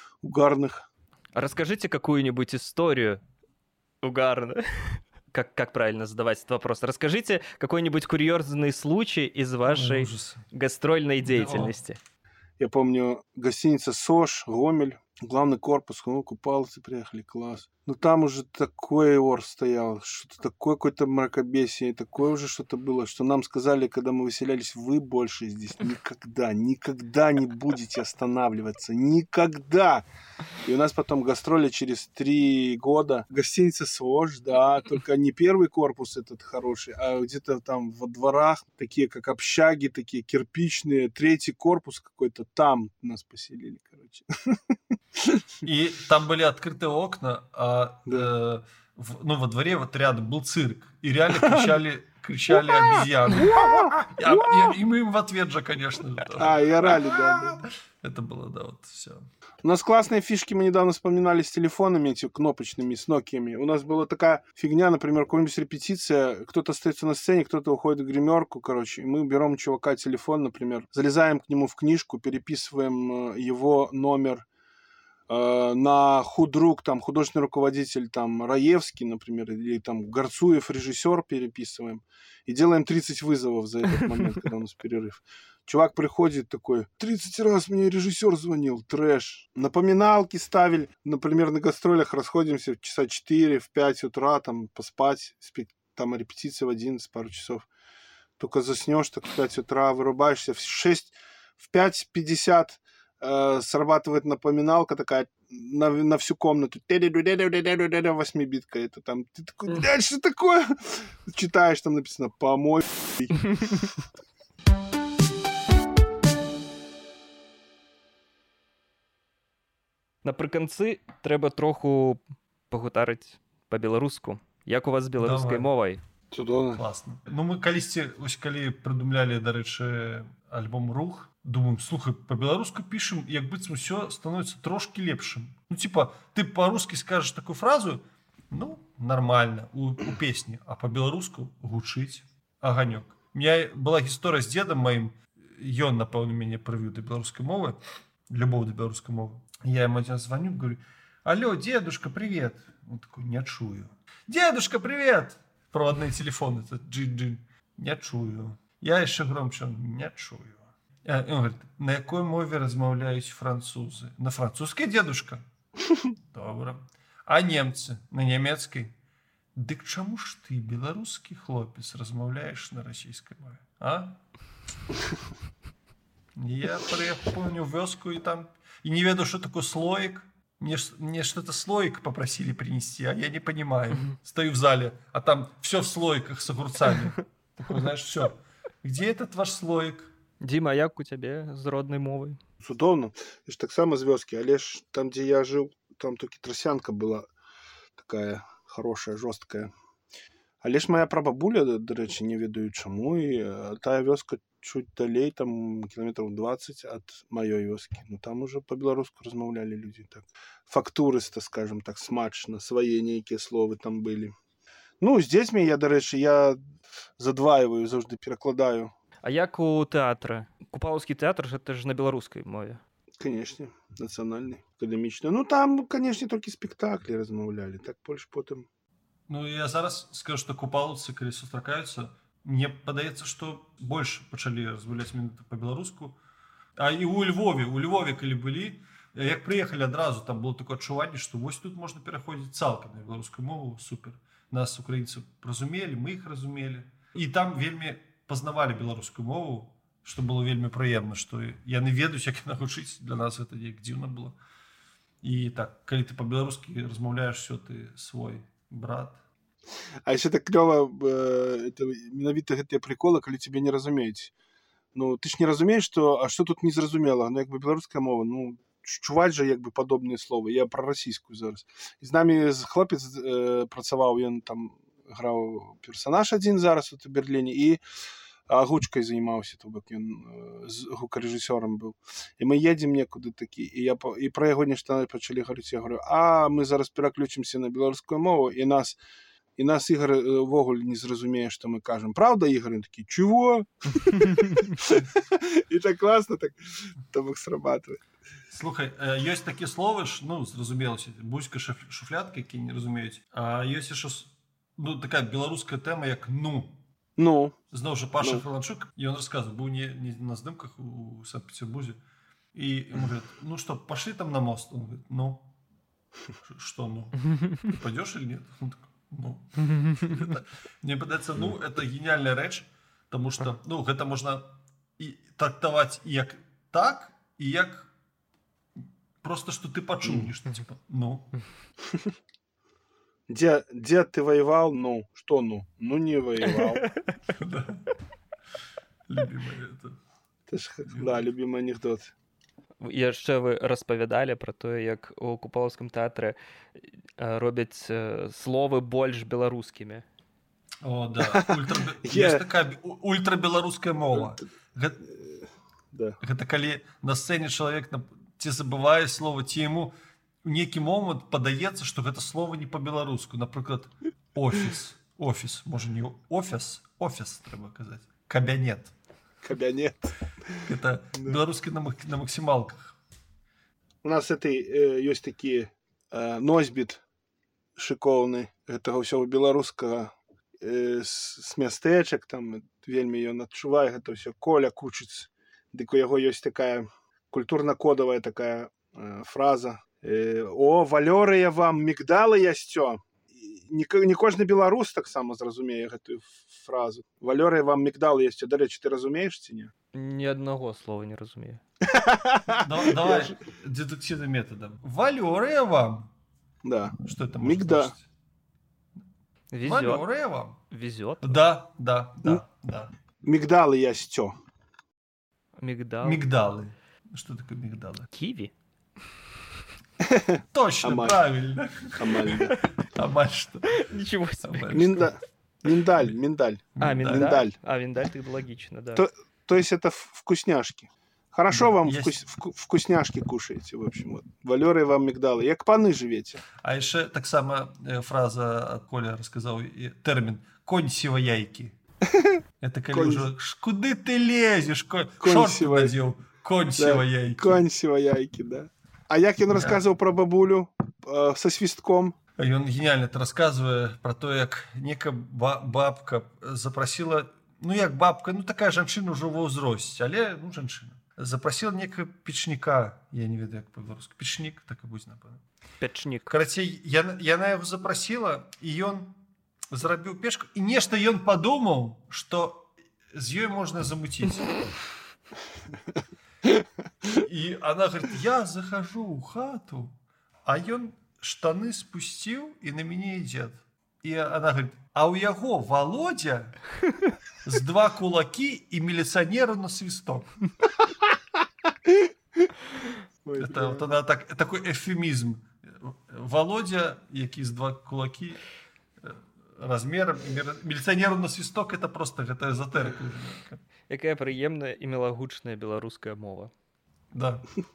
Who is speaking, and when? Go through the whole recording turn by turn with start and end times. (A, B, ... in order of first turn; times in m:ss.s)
0:00.2-0:00.8 A
0:01.3-0:03.2 B
0:04.0-0:12.0 B
0:09.6-0:10.4 C
0:11.2-0:11.7 C
0:12.6-0:30.0 A
0:30.6-0:45.4 A
0:45.6-0:56.6 C
0:51.3-0:51.8 A
0:53.3-0:54.1 A
0:56.4-0:57.6 A
0:57.3-0:59.2 C
0:59.6-1:14.4 A
1:15.3-1:37.7 A
1:38.4-1:53.4 A
1:53.5-1:53.8 B
2:00.2-2:06.0 B
2:05.2-2:05.7 C
2:06.3-2:06.8 A
2:06.7-2:27.8 C
2:28.3-2:45.4 C
2:46.3-2:48.9 C
2:49.5-2:54.2 C
2:56.4-3:10.1 C
3:10.4-3:12.4 B
3:12.6-3:17.3 A
3:18.0-3:19.7 A
3:20.6-3:34.3 A
3:35.0-3:36.6 A
3:37.2-3:38.9 A
3:39.2-3:42.8 B
3:43.2-3:48.7 A
3:49.3-3:56.2 C
3:56.8-4:14.4 C
4:15.2-4:19.2 C
4:20.0-4:24.3 A
4:24.9-4:37.8 A
4:38.5-4:49.0 A
4:49.6-4:56.6 A
4:57.1-4:58.0 A
4:58.5-5:06.8 C
5:07.2-5:07.6 A
5:07.7-5:12.0 C
5:12.5-5:15.5 C
5:16.4-5:27.9 C
5:19.7-5:20.0 B
5:29.2-5:31.3 C
5:30.0-5:30.3 A
5:33.3-5:36.9 A
5:36.5-5:36.9 B
5:37.4-5:37.8 C
5:39.1-5:40.0 C
5:40.5-5:42.1 A
5:42.8-5:50.0 B
5:50.8-5:55.0 C
5:51.3-5:52.4 A
5:54.1-5:54.4 A
5:55.9-5:56.2 A
5:56.2-5:59.9 C
6:00.4-6:08.9 C
6:09.4-6:11.4 A
6:10.6-6:12.9 C
6:14.0-6:17.0 A
6:17.8-6:39.7 A
6:39.9-6:41.6 B
6:41.8-6:43.4 A
6:42.6-6:46.1 C
6:46.6-6:47.9 A
6:47.0-6:48.0 C
6:49.5-6:50.0 B
6:49.6-6:50.6 C
6:50.7-6:51.4 B
6:51.2-6:52.9 C
6:53.2-6:54.3 A
6:55.6-6:56.2 B
6:56.0-6:58.1 C
6:58.1-6:58.5 B
7:00.0-7:01.2 A
7:00.5-7:03.8 C
7:02.0-7:02.5 A
7:03.7-7:04.9 B
7:04.4-7:05.1 C
7:04.7-7:07.5 A
7:06.8-7:07.4 C
7:06.8-7:09.0 B
7:08.9-7:16.4 A
7:11.5-7:12.2 C
7:16.6-7:21.7 C
7:22.6-7:27.6 C
7:22.9-7:23.3 A
7:25.2-7:25.9 A
7:26.8-7:32.2 A
7:32.4-7:45.4 C
7:45.8-7:46.3 B
7:46.3-7:49.1 C
7:49.7-7:54.5 C
7:57.1-8:06.6 C
8:07.4-8:10.3 C
8:13.2-8:13.9 A
8:13.4-8:18.4 C
8:19.0-8:23.6 C
8:23.9-8:26.5 B
8:27.1-8:27.4 C